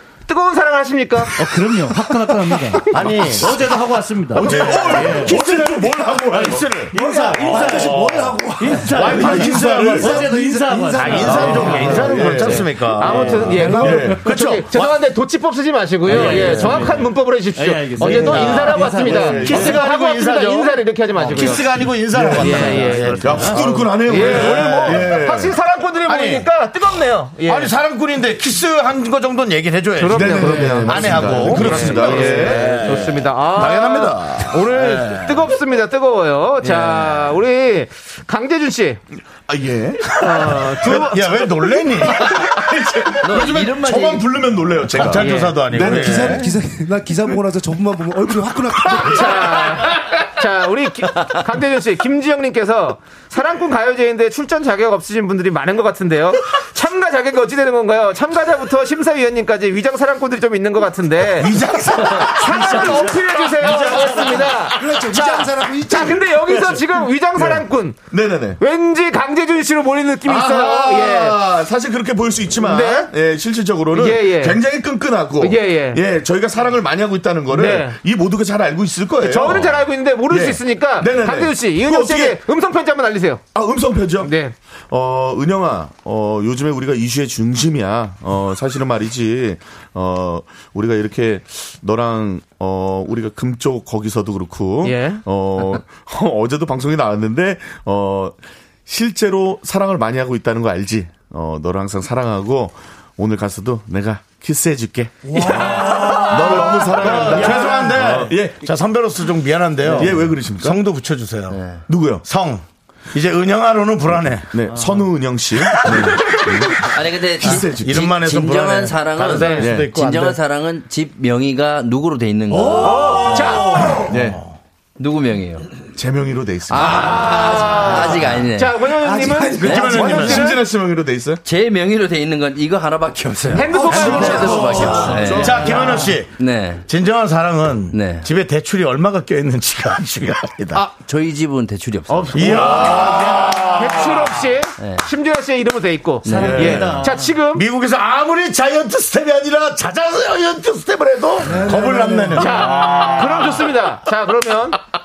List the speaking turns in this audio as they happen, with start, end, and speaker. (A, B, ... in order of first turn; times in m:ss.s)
0:00.3-0:01.3 A
0:01.4-0:05.5 B
0:02.9-0:03.6 C
0:03.0-0:03.6 D
0:04.3-0:06.9 D
0:04.4-0:08.4 C
0:06.6-0:12.6 B
0:06.9-0:12.3 E
0:08.9-0:10.3 D
0:09.0-0:10.2 C
0:11.0-0:15.0 C
0:11.1-0:14.2 D
0:11.3-0:21.8 A
0:13.6-0:14.0 E
0:16.1-0:19.7 B
0:16.1-0:16.8 D
0:16.2-0:16.8 C
0:18.0-0:18.6 C
0:18.1-0:19.8 D
0:19.4-0:20.8 C
0:21.2-0:23.8 B
0:21.3-0:25.2 C
0:21.9-0:25.6 D
0:22.3-0:27.7 A
0:26.1-0:26.5 C
0:27.4-0:35.5 C
0:30.0-0:39.0 A
0:30.1-0:34.5 D
0:36.7-0:37.0 C
0:39.4-0:41.1 D
0:40.1-0:41.4 A
0:40.8-0:43.2 C
0:42.0-0:46.5 D
0:43.2-0:44.4 F
0:44.9-0:46.6 C
0:45.0-0:45.6 A
0:45.7-0:49.8 E
0:49.0-1:08.0 A
1:01.4-1:03.1 C
1:03.6-1:05.2 D
1:03.7-1:06.3 E
1:06.2-1:08.6 D
1:08.6-1:11.4 A
1:10.2-1:22.4 D
1:12.6-1:13.1 A
1:13.9-1:14.6 A
1:15.4-1:16.0 A
1:17.5-1:18.0 A
1:19.2-1:23.4 A
1:23.5-1:24.3 D
1:24.2-1:24.5 A
1:24.9-1:48.6 D
1:34.8-1:35.8 A
1:45.4-1:46.4 A
1:45.4-1:51.6 C
1:49.9-1:50.8 D
1:49.9-1:50.4 F
1:51.5-1:51.8 F
1:51.9-1:52.2 D
1:52.2-1:54.6 C
1:54.5-1:58.2 D
1:54.7-1:55.1 B
1:55.6-1:56.4 C
1:56.8-2:03.4 F
1:57.4-2:00.4 C
1:59.3-1:59.7 A
1:59.6-2:00.0 D
2:02.6-2:04.4 C
2:02.6-2:04.4 D
2:02.8-2:04.1 A
2:05.0-2:05.8 F
2:05.9-2:07.2 D
2:06.7-2:08.9 F
2:06.8-2:10.6 A
2:08.8-2:10.6 E
2:09.6-2:10.5 C
2:09.6-2:10.0 F
2:09.8-2:11.4 D
2:11.4-2:16.8 F
2:13.5-2:15.2 A
2:13.8-2:20.8 C
2:13.9-2:16.2 D
2:17.9-2:18.3 F
2:20.7-2:22.9 F
2:22.2-2:24.3 D
2:22.3-2:24.4 C
2:23.7-2:27.7 A
2:24.8-2:25.1 F
2:26.2-2:27.0 F
2:26.3-2:27.3 B
2:26.4-2:26.9 D
2:26.5-2:33.7 C
2:31.4-2:32.6 E
2:32.3-2:34.8 A
2:32.6-2:33.4 D